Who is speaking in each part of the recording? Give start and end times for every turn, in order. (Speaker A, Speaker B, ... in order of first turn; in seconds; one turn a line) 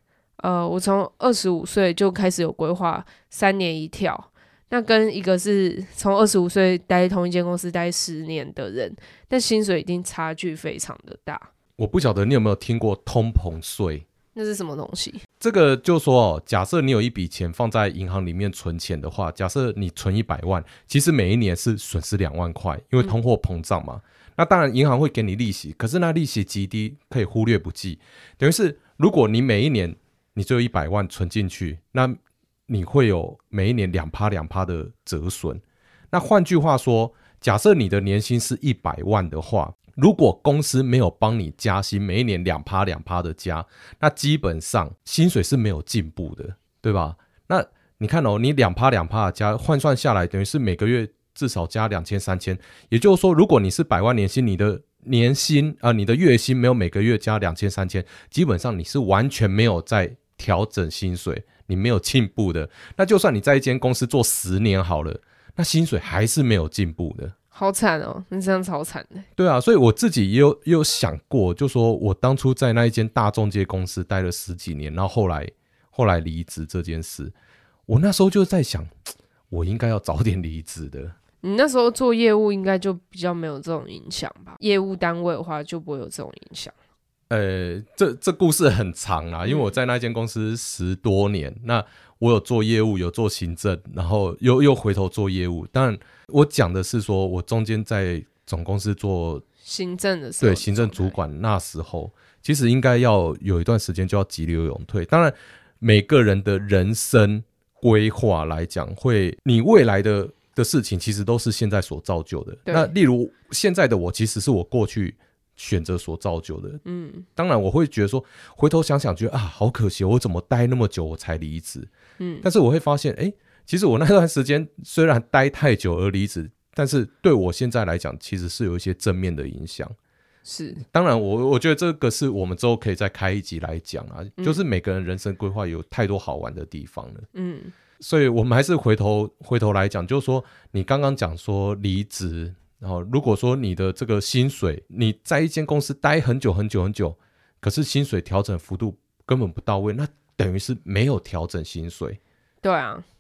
Speaker A: 0.4-11.5
Speaker B: 11.8-14.1
Speaker A: 14.3-15.2
Speaker B: 15.4-32.2
Speaker B: 32.7-67.3
Speaker A: 67.5-69.3
Speaker B: 69.4-77.3
Speaker B: 77.9-78.9
Speaker B: 79.5-81.2
Speaker A: 81.4-86.7
Speaker B: 87.3-99.4
Speaker A: 89.5-89.7
Speaker A: 99.6-101.2
Speaker B: 100.4-116.8
Speaker A: 116.8-117.2
Speaker B: 117.4-121.9
Speaker A: 122.2-122.5
Speaker B: 122.4-129.9
Speaker A: 130.4-130.8
Speaker B: 130.9-137.3
Speaker A: 137.3-137.7
Speaker B: 138.0-152.2
Speaker A: 152.6-153.1